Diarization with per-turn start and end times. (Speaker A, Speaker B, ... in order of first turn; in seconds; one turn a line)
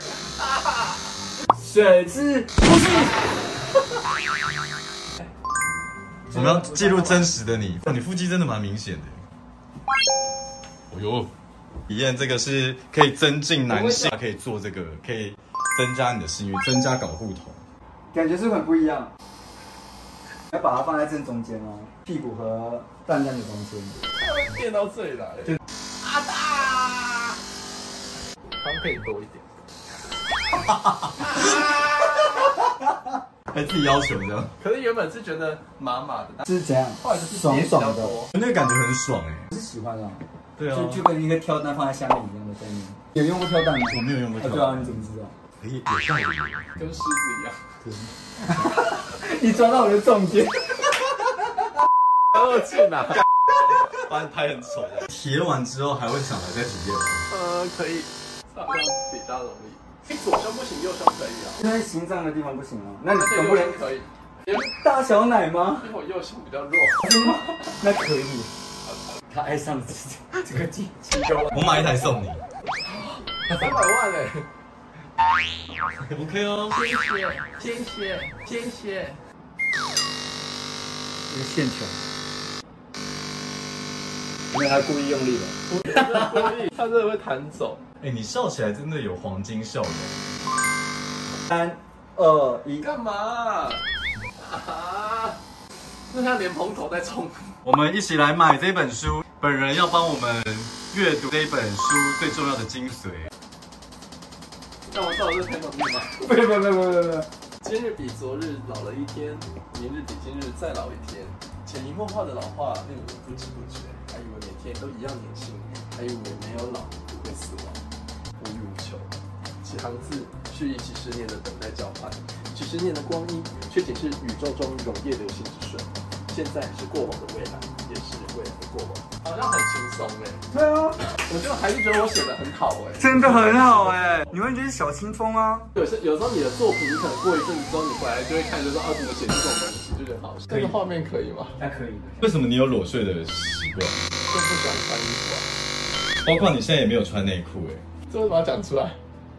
Speaker A: 0.4-0.7
Speaker B: 1.5-3.2
Speaker C: 6.3-9.2
Speaker C: 10.9-11.3
Speaker C: 11.9-17.6
Speaker B: 18.1-19.1
Speaker B: 20.5-24.0
Speaker A: 24.2-27.4
Speaker A: 28.6-29.4
Speaker C: 30.7-31.4
Speaker A: 31.2-32.3
Speaker C: 33.5-34.5
Speaker A: 34.6-36.5
Speaker B: 36.4-38.2
Speaker A: 37.0-38.3
Speaker C: 38.3-39.5
Speaker B: 39.5-45.4
Speaker C: 40.6-41.0
Speaker C: 43.8-45.0
Speaker C: 45.6-46.6
Speaker A: 46.8-47.6
Speaker B: 48.4-51.0
Speaker A: 52.3-53.2
Speaker C: 53.9-57.2
Speaker A: 57.3-61.6
Speaker B: 61.6-63.8
Speaker A: 63.1-64.6
Speaker B: 64.5-65.9
Speaker A: 65.8-67.1
Speaker B: 67.0-68.5
Speaker B: 69.3-71.6
Speaker C: 71.5-72.4
Speaker A: 72.8-74.5
Speaker C: 76.1-76.8
Speaker A: 76.7-79.2
Speaker B: 81.3-82.0
Speaker B: 84.5-86.0
Speaker A: 85.7-87.8
Speaker C: 88.0-90.2
Speaker B: 91.5-92.9
Speaker A: 92.8-93.8
Speaker A: 94.4-95.4
Speaker A: 96.1-97.5
Speaker C: 97.6-103.3
Speaker A: 104.9-106.2
Speaker B: 106.2-107.3
Speaker A: 107.6-117.8
Speaker A: 118.4-119.1
Speaker A: 119.6-130.4
Speaker B: 130.5-131.0
Speaker A: 131.2-134.2
Speaker B: 133.0-135.7
Speaker A: 135.7-141.6
Speaker B: 141.6-142.2
Speaker C: 142.2-144.0
Speaker A: 144.3-145.5
Speaker C: 146.2-147.8
Speaker A: 148.1-149.0